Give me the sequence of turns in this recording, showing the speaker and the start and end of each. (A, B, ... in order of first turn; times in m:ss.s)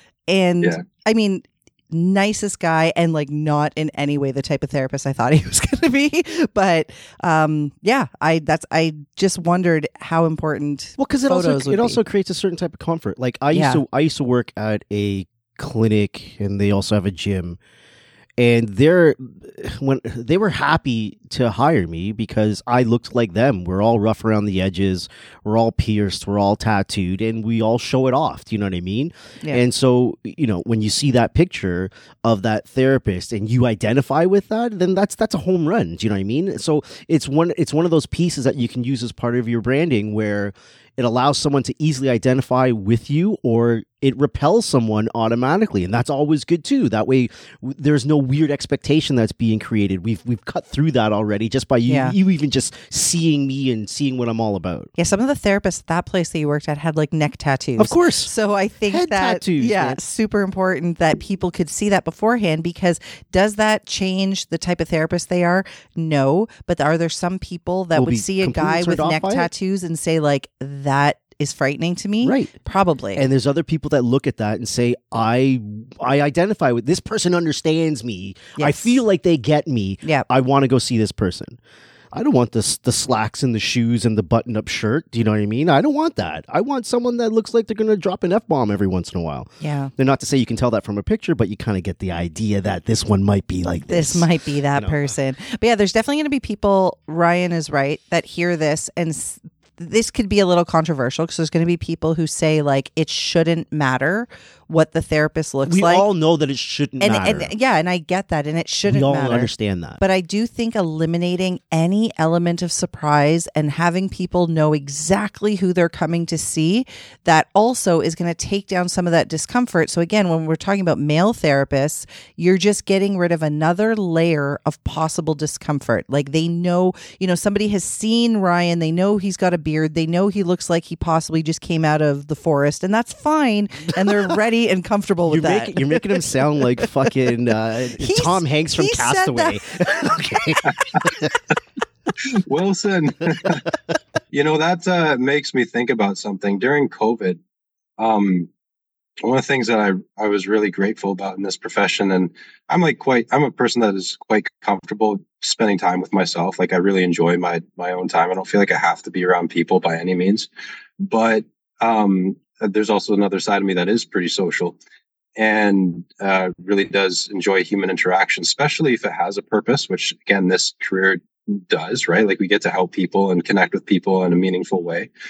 0:00.3-0:12.0 A
0:11.0-0:17.6 B
0:13.5-0:13.8 A
0:18.4-0:54.9 B
0:51.9-0:52.2 A
0:55.0-1:13.2 A
0:57.8-0:58.3 B
0:58.9-1:00.0 B
1:08.0-1:09.5 B
1:12.2-1:12.5 B
1:13.2-1:21.6 B
1:18.6-1:19.0 A
1:22.1-1:35.0 B
1:29.6-1:29.9 A
1:33.9-1:46.0 A
1:45.7-1:47.5 B
1:47.0-2:16.2 A
1:48.8-1:50.0 B
2:15.3-2:21.4 B
2:18.0-2:20.2 A
2:22.2-2:23.6 C
2:24.3-2:27.4 C
2:28.0-2:28.5 C
2:29.2-2:44.8 C
2:45.4-2:55.1 C